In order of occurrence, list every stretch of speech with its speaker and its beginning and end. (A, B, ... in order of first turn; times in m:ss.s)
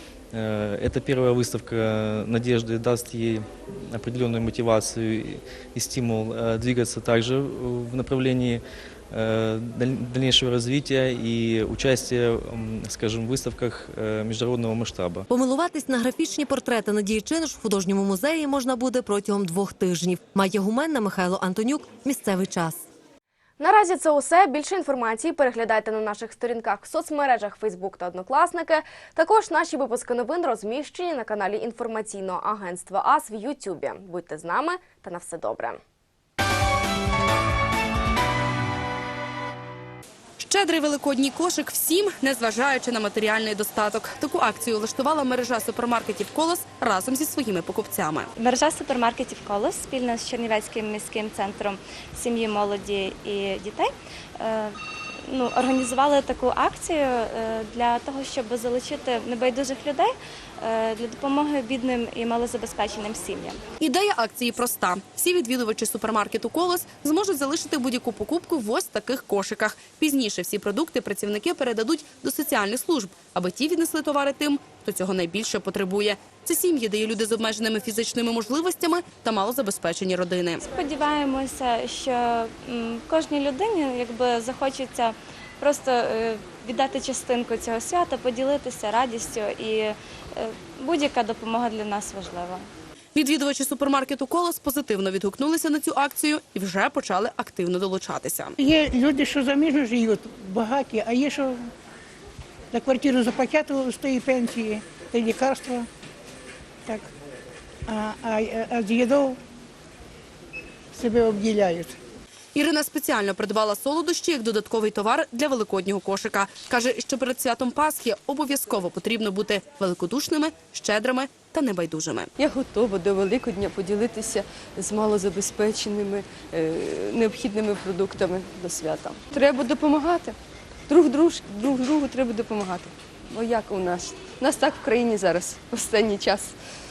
0:00.3-0:15.3 A
0:15.3-0:22.8 B
0:23.6-0:35.8 C
0:40.4-0:48.2 D
0:48.4-0:53.9 E
0:54.4-0:54.8 E
0:55.3-1:03.6 E
1:03.8-1:20.6 D
1:20.6-1:32.7 E
1:33.2-1:38.6 D
1:38.6-1:41.6 F
1:42.7-1:45.9 F
1:47.9-1:49.4 F
1:50.9-1:52.0 F
1:52.6-2:02.3 D
2:02.4-2:10.4 G
2:10.9-2:16.6 G